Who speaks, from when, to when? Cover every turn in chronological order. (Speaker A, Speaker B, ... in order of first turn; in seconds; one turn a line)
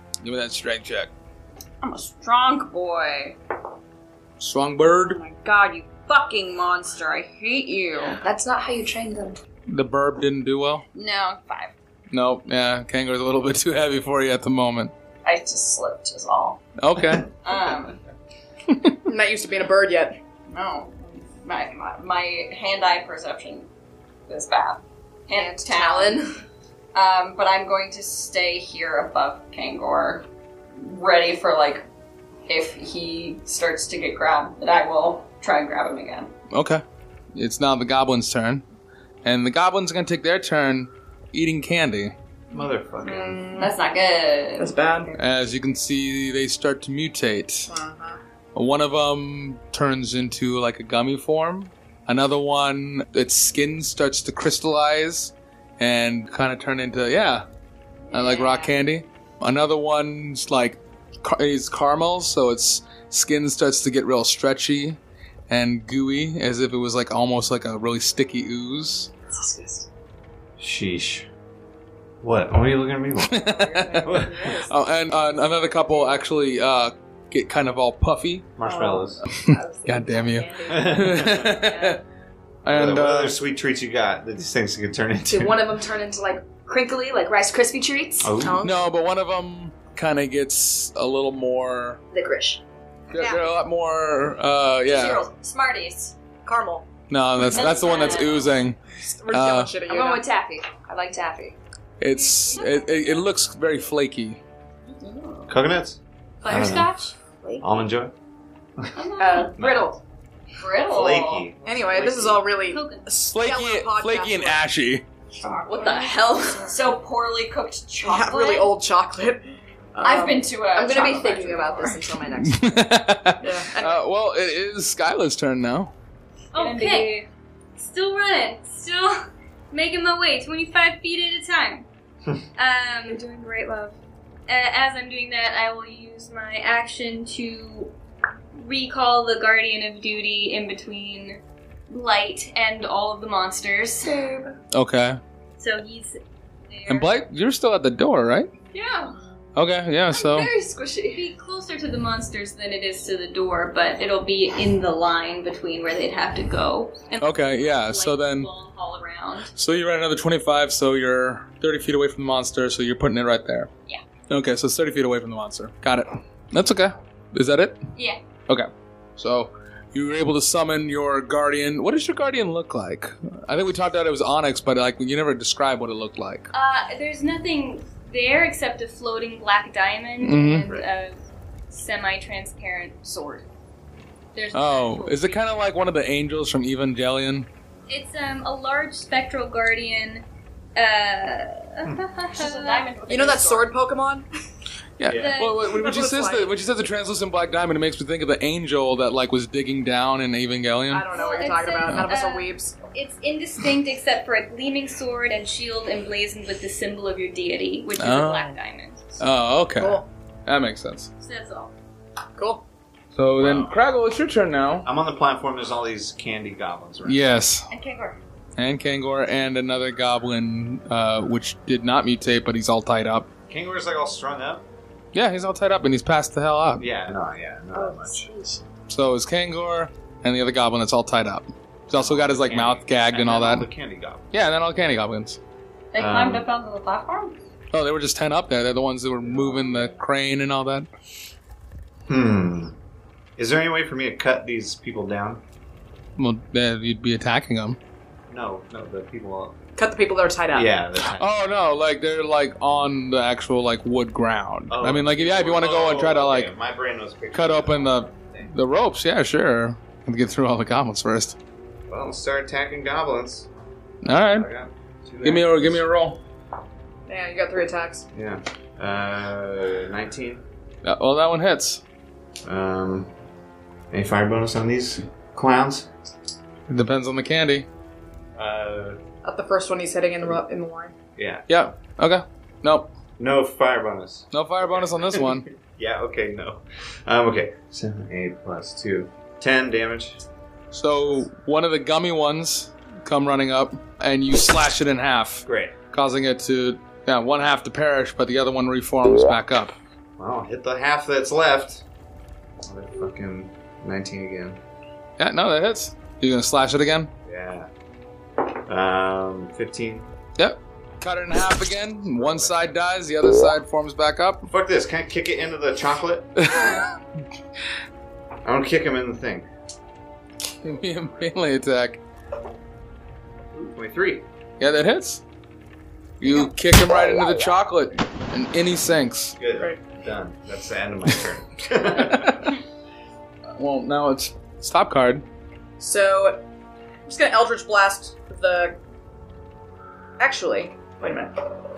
Speaker A: 0.2-1.1
Speaker B: 1.8-3.4
Speaker A: 4.4-5.2
Speaker B: 5.1-8.2
Speaker C: 8.2-9.4
Speaker A: 9.7-10.8
Speaker B: 10.9-11.7
Speaker A: 12.1-14.9
Speaker B: 15.2-16.6
Speaker A: 16.8-17.3
Speaker B: 17.4-18.0
Speaker A: 18.7-18.9
Speaker D: 19.1-20.2
Speaker B: 20.5-23.7
Speaker B: 24.3-26.3
Speaker C: 25.3-26.4
Speaker B: 26.9-30.2
Speaker B: 30.8-31.8
Speaker B: 32.5-36.3
Speaker A: 36.5-36.8
Speaker A: 37.3-38.6
Speaker A: 39.2-42.1
Speaker E: 42.5-43.5
Speaker D: 43.0-43.7
Speaker B: 43.5-44.8
Speaker D: 44.6-45.1
Speaker A: 45.2-47.7
Speaker D: 47.7-48.2
Speaker A: 48.5-57.5
Speaker C: 58.1-58.7
Speaker A: 58.1-69.1
Speaker C: 69.3-69.8
Speaker E: 70.6-71.3
Speaker E: 72.2-73.5
Speaker A: 73.2-78.6
Speaker D: 73.5-74.7
Speaker E: 74.0-74.5
Speaker E: 78.6-79.2
Speaker C: 78.7-82.0
Speaker A: 79.3-82.0
Speaker E: 80.7-81.6
Speaker A: 82.6-83.4
Speaker E: 82.7-85.7
Speaker C: 85.3-88.4
Speaker E: 88.2-88.6
Speaker D: 88.4-88.9
Speaker A: 88.6-92.0
Speaker C: 92.1-92.6
Speaker A: 93.1-95.2
Speaker D: 93.1-93.5
Speaker B: 94.9-96.1
Speaker D: 96.5-96.9
Speaker A: 97.1-99.8
Speaker B: 97.4-98.4
Speaker F: 97.9-98.2
Speaker D: 99.0-100.2
Speaker C: 99.8-101.6
Speaker A: 102.0-104.4
Speaker E: 105.5-107.0
Speaker F: 106.4-107.1
Speaker E: 107.6-108.1
Speaker B: 109.0-110.0
Speaker D: 109.2-109.5
Speaker E: 109.6-109.9
Speaker B: 110.6-111.5
Speaker E: 110.9-112.4
Speaker D: 111.7-114.7
Speaker F: 112.5-113.1
Speaker A: 113.3-115.0
Speaker C: 115.6-116.8
Speaker B: 115.8-116.0
Speaker B: 116.6-118.8
Speaker D: 118.0-119.4
Speaker D: 120.0-120.5
Speaker B: 120.0-122.0
Speaker C: 120.7-122.8
Speaker A: 122.4-125.9
Speaker D: 123.4-124.0
Speaker F: 126.5-127.3
Speaker B: 126.6-127.1
Speaker F: 127.8-131.9
Speaker F: 132.6-133.3
Speaker F: 134.5-137.9
Speaker F: 138.5-144.2
Speaker A: 144.7-145.2
Speaker F: 145.6-147.2
Speaker A: 146.9-148.5
Speaker B: 148.7-149.1
Speaker A: 149.6-150.5
Speaker B: 150.2-151.2
Speaker F: 151.1-158.5
Speaker A: 157.2-158.5
Speaker B: 158.5-159.5
Speaker A: 159.6-163.7
Speaker A: 164.3-167.8
Speaker F: 167.9-168.2
Speaker A: 168.5-176.5
Speaker F: 176.5-183.0
Speaker A: 180.2-180.7
Speaker D: 183.1-183.4
Speaker F: 184.3-185.7
Speaker A: 184.5-187.5
Speaker F: 187.9-190.2
Speaker F: 190.8-192.9
Speaker B: 192.3-193.7
Speaker D: 193.1-194.2
Speaker A: 195.0-201.1
Speaker E: 195.1-195.4
Speaker F: 195.1-195.8
Speaker D: 195.6-196.6
Speaker D: 200.9-202.8
Speaker F: 201.1-209.2
Speaker A: 201.9-202.1
Speaker A: 208.0-208.6
Speaker A: 209.2-211.1
Speaker D: 209.8-210.1
Speaker F: 211.2-211.7
Speaker D: 212.4-212.6
Speaker A: 213.1-214.9
Speaker E: 213.4-213.8
Speaker E: 214.8-217.2
Speaker A: 217.1-217.7
Speaker A: 218.6-223.3
Speaker E: 223.5-224.7
Speaker A: 225.1-226.9
Speaker E: 226.8-228.3
Speaker C: 227.8-228.5
Speaker A: 228.9-233.7
Speaker E: 231.9-234.3
Speaker A: 234.3-235.4
Speaker B: 235.9-237.4
Speaker E: 235.9-236.5
Speaker A: 237.7-240.9
Speaker E: 239.2-240.0
Speaker E: 242.1-242.8
Speaker E: 243.4-245.4
Speaker A: 246.2-247.8
Speaker E: 248.3-249.6
Speaker D: 249.8-250.7
Speaker E: 250.5-251.4
Speaker A: 251.1-256.5
Speaker E: 254.7-258.5
Speaker A: 257.3-261.4
Speaker E: 261.9-263.5
Speaker A: 264.0-264.5
Speaker E: 264.3-265.8
Speaker A: 265.2-266.2
Speaker D: 267.1-268.1
Speaker E: 268.1-270.4
Speaker A: 270.8-271.8
Speaker E: 272.4-273.1
Speaker E: 273.9-275.9
Speaker A: 276.7-277.7
Speaker E: 278.4-279.0
Speaker D: 279.2-280.9
Speaker E: 281.2-281.4
Speaker A: 281.5-282.9
Speaker E: 283.2-290.2
Speaker A: 284.3-285.5
Speaker A: 290.7-299.8
Speaker E: 295.5-295.8
Speaker E: 300.2-301.8
Speaker E: 302.6-304.6
Speaker A: 305.2-307.1
Speaker E: 307.2-307.7
Speaker E: 308.7-310.1
Speaker A: 310.4-314.5
Speaker E: 312.1-312.7
Speaker E: 314.5-316.5
Speaker A: 316.4-316.9
Speaker E: 318.4-319.5
Speaker A: 320.6-322.0
Speaker E: 323.6-324.2
Speaker A: 324.6-325.2
Speaker A: 326.2-329.4
Speaker E: 329.4-332.5
Speaker A: 332.0-332.4
Speaker A: 333.6-335.2
Speaker D: 335.8-336.4
Speaker D: 337.1-338.8
Speaker D: 340.2-341.3